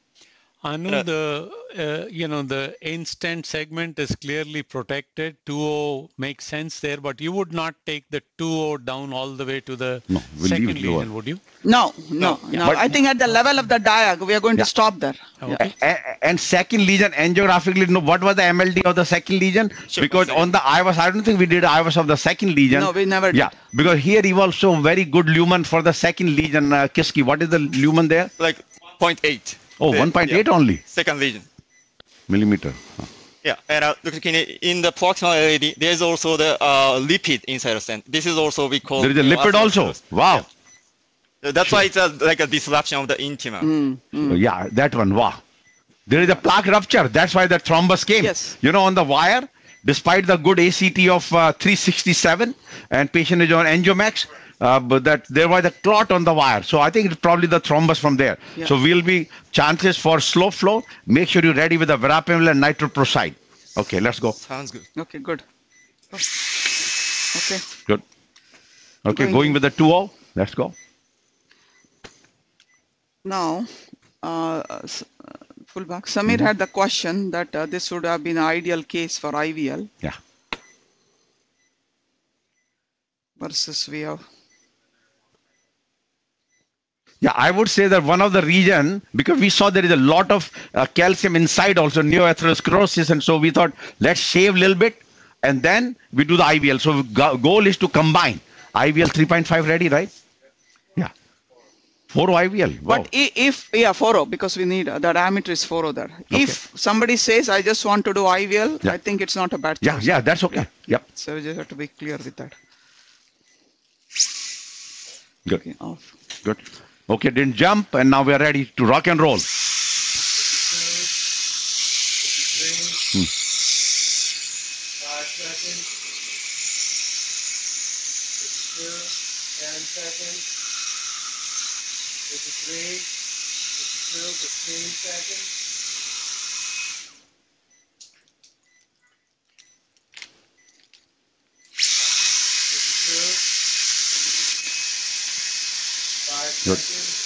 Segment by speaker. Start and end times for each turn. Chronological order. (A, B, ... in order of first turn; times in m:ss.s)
0:00.6-0:11.4 A
0:10.1-0:11.1 B
0:11.6-0:15.6 C
0:12.2-0:12.6 D
0:15.6-0:28.3 B
0:19.9-0:20.5 D
0:22.7-0:23.6 C
0:28.4-0:31.5 D
0:29.8-0:30.8 B
0:32.3-0:33.1 B
0:33.4-0:40.5 D
0:39.0-0:40.4 B
0:41.4-0:43.7 D
0:43.6-0:44.4 C
0:44.2-0:45.4 B
0:46.1-1:04.4 B
0:48.2-0:48.5 C
1:04.4-1:04.9 D
1:05.0-1:05.4 C
1:07.3-1:07.6 C
1:09.1-1:10.8 B
1:09.1-1:09.6 C
1:13.2-1:13.7 C
1:14.2-1:19.9 C
1:23.4-1:24.2 C
1:27.2-1:40.1 B
1:42.1-1:43.1 B
1:42.9-1:52.6 C
1:46.3-1:46.6 B
1:49.8-1:51.0 B
1:55.5-1:56.1 C
1:56.4-1:59.5 B
2:14.4-2:14.9 A
2:26.6-2:26.9 B